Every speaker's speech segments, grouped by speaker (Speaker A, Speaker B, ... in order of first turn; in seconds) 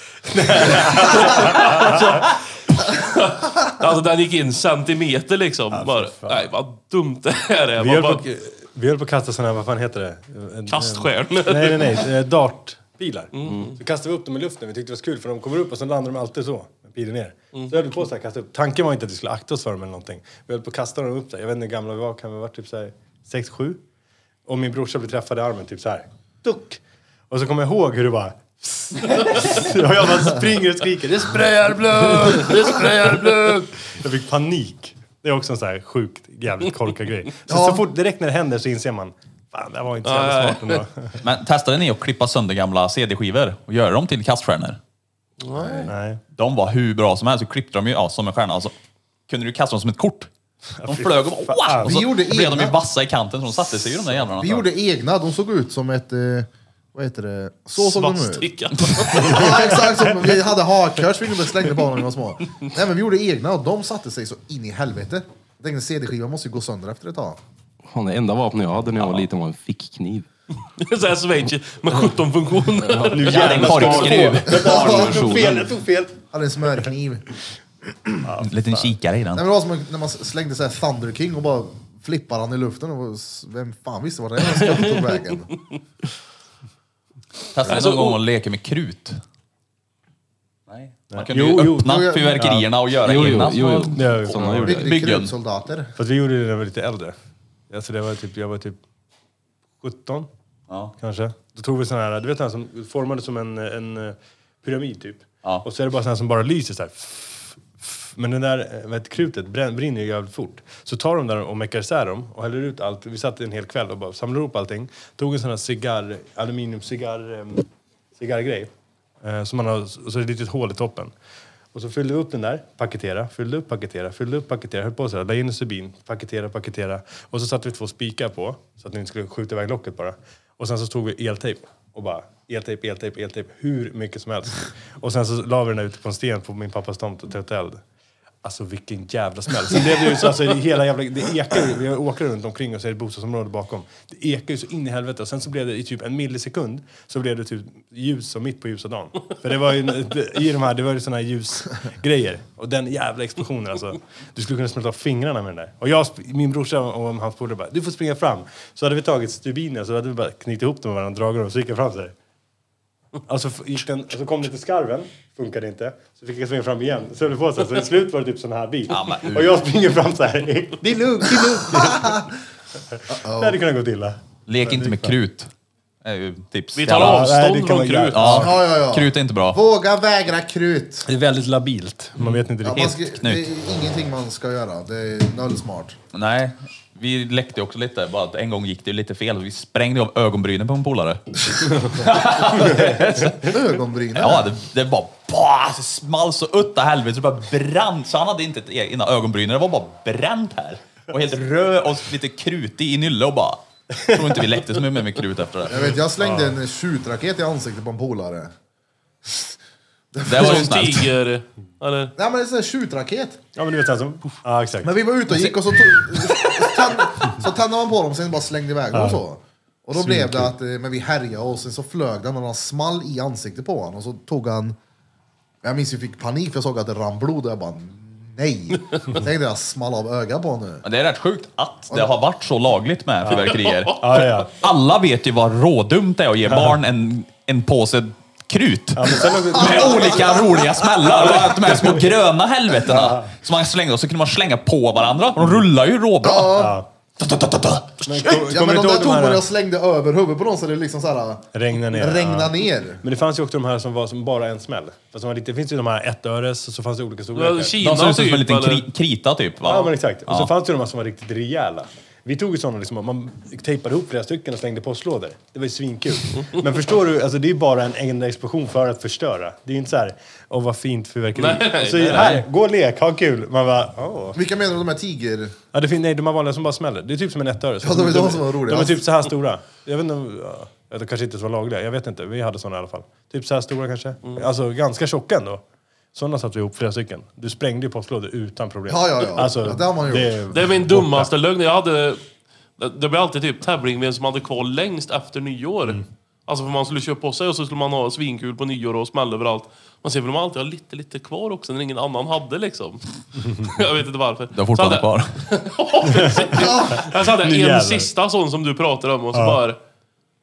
Speaker A: 0.3-2.3, 5.7-6.4, 7.8-23.8, 24.5-41.2, 45.9-46.2, 50.8-52.0, 59.3-60.3, 73.1-76.2, 78.2-78.9, 91.1-92.7, 93.9-94.8, 96.0-97.2, 97.7-98.8, 99.8-100.3, 101.0-118.7, 119.2-121.1, 121.7-137.8, 138.4-162.1, 163.3-172.3, 172.9-175.2, 176.9-178.6, 181.1-183.0, 205.8-206.6, 213.6-214.9, 218.9-219.2, 219.9-220.5, 233.2-234.5, 236.4-236.8, 238.9-240.3, 241.3-242.1, 242.9-243.3, 245.4-245.6, 246.5-246.9, 248.1-249.4, 251.5-257.8, 259.6-274.4, 275.7-285.6, 286.1-291.3, 303.4-303.7, 306.1-308.1, 309.3-309.6
Speaker B: 0.5-8.2, 10.7-12.0, 13.3-13.8, 32.1-33.6, 40.0-40.9, 45.4-45.9, 57.8-59.8, 70.8-73.5, 87.7-88.2, 176.8-178.2, 210.4-212.1, 233.4-233.9, 257.4-258.9, 271.4-272.4, 290.5-292.2, 292.8-309.8
Speaker C: 37.5-37.8, 45.5-45.9, 51.8-52.8, 54.4-58.5, 59.1-67.4, 74.6-75.1, 76.3-77.2, 77.9-78.3, 79.3-85.5, 91.8-92.4, 94.7-95.9, 170.9-172.3, 173.1-173.6, 178.3-181.1, 182.7-186.0, 193.4-194.5, 205.7-208.5, 209.3-209.5, 210.2-210.6, 212.2-213.4, 214.8-224.8, 225.6-230.8, 239.5-240.9, 246.2-246.8, 248.5-253.0, 274.4-275.6, 277.8-279.0, 288.9-290.4, 306.6-307.0
Speaker D: 41.2-44.8, 45.8-48.7, 49.3-50.3, 50.8-54.7, 58.9-59.4, 73.3-75.3, 78.4-79.5, 87.5-89.2, 90.7-95.3, 100.7-101.0, 168.9-169.6, 174.5-175.5, 176.0-177.4, 178.1-179.6, 182.2-183.5, 186.1-193.6, 194.2-205.9, 210.2-211.1, 230.8-248.5, 257.8-260.5, 272.1-272.4, 304.5-305.4
Speaker E: 67.9-70.3, 72.9-75.7, 93.0-95.0